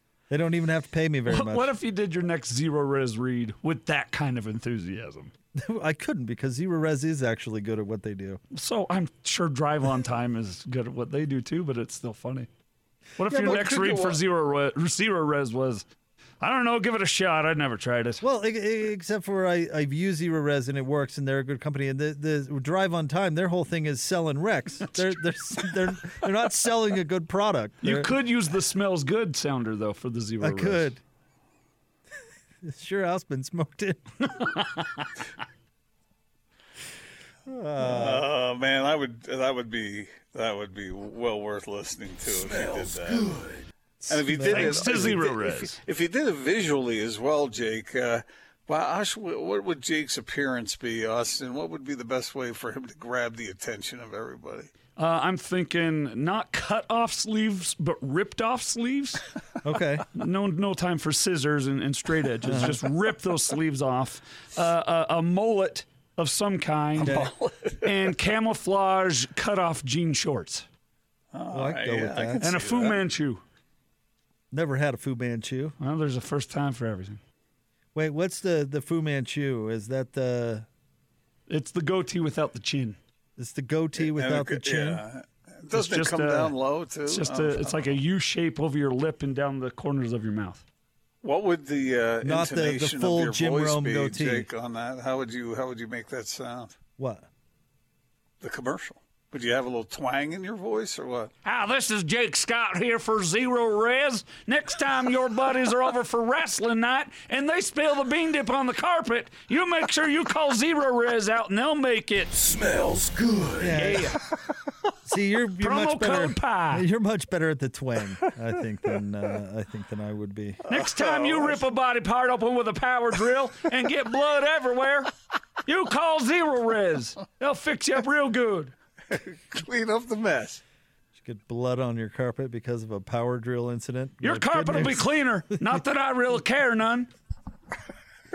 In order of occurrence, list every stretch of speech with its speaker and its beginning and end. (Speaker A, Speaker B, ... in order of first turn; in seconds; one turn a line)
Speaker A: 0.3-1.7
Speaker B: 1.3-5.3
Speaker A: 5.5-8.4
Speaker B: 8.5-12.5
Speaker B: 13.2-15.8
Speaker A: 13.3-13.9
Speaker C: 13.3-14.2
Speaker B: 16.4-18.2
Speaker A: 18.2-28.1
Speaker B: 27.8-30.9
Speaker A: 30.4-31.0
Speaker A: 32.6-34.0
Speaker B: 34.3-35.1
Speaker A: 37.5-38.2
Speaker C: 37.8-43.3
Speaker D: 42.2-43.7
Speaker A: 44.0-45.1
Speaker C: 44.1-54.7
Speaker B: 44.5-45.8
Speaker B: 55.0-59.3
Speaker A: 59.6-60.0
Speaker B: 60.1-67.2
Speaker A: 62.4-62.8
Speaker C: 67.0-68.1
Speaker A: 67.0-67.3
Speaker B: 67.8-70.7
Speaker C: 71.3-73.0
Speaker A: 71.5-72.4
Speaker B: 72.4-73.4
Speaker A: 74.5-75.8
Speaker B: 75.8-77.2
Speaker A: 77.9-80.7
Speaker B: 81.5-83.0
Speaker A: 83.4-85.0
Speaker C: 84.0-88.0
Speaker B: 85.7-86.5
Speaker B: 87.1-90.6
Speaker C: 91.2-96.8
Speaker A: 92.2-94.5
Speaker A: 97.0-97.3
Speaker C: 98.4-101.3
Speaker B: 101.4-112.3
Speaker D: 112.3-113.8
Speaker A: 113.6-114.2
Speaker B: 113.8-114.2
Speaker A: 115.0-120.6
Speaker B: 115.6-116.8
Speaker C: 120.6-121.7
Speaker B: 120.7-125.1
Speaker B: 125.6-128.7
Speaker C: 129.1-130.6
Speaker A: 131.2-135.8
Speaker B: 134.2-137.1